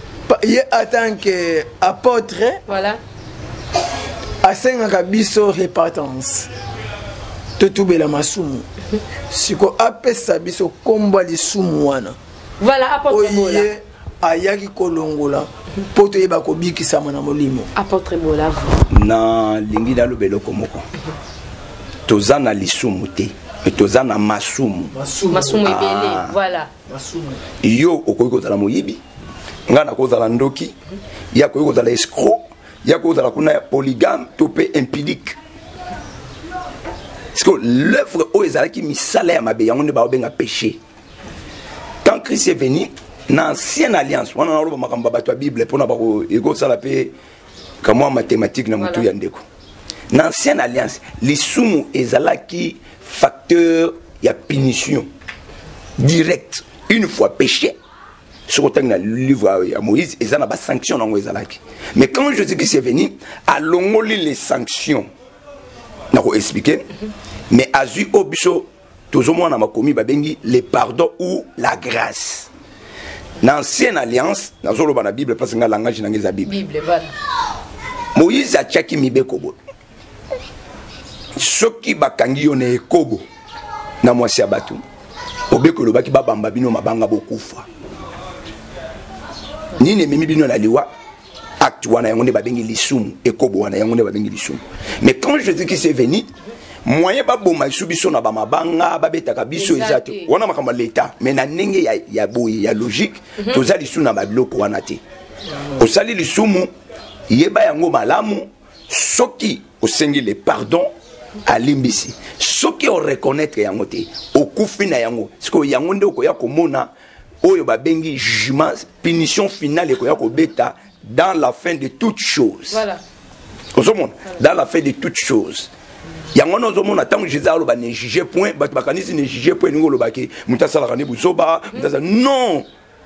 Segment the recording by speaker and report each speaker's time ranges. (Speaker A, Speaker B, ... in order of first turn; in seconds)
Speaker A: 0.3-2.6, 4.4-6.5, 7.6-8.7, 9.3-12.2, 13.1-17.7, 24.9-25.7, 26.9-27.4
Speaker B: 2.7-3.0, 12.6-13.7, 17.8-18.8, 25.3-26.7, 76.5-77.1, 99.6-100.3, 122.7-123.0
Speaker C: 18.9-20.9, 22.1-24.9, 25.6-26.4, 27.6-29.0, 29.7-30.8, 31.3-35.4, 37.4-40.8, 42.0-47.1, 47.8-49.4, 50.1-55.1, 56.0-57.8, 58.5-65.1, 66.1-66.9, 67.5-72.5, 73.4-76.6, 78.2-79.6, 81.3-83.2, 84.0-84.8, 85.5-87.7, 89.8-90.9, 91.6-96.3, 96.8-105.0, 105.8-106.7, 107.3-110.9, 111.5-116.9, 117.4-122.8, 123.7-125.7, 126.3-132.7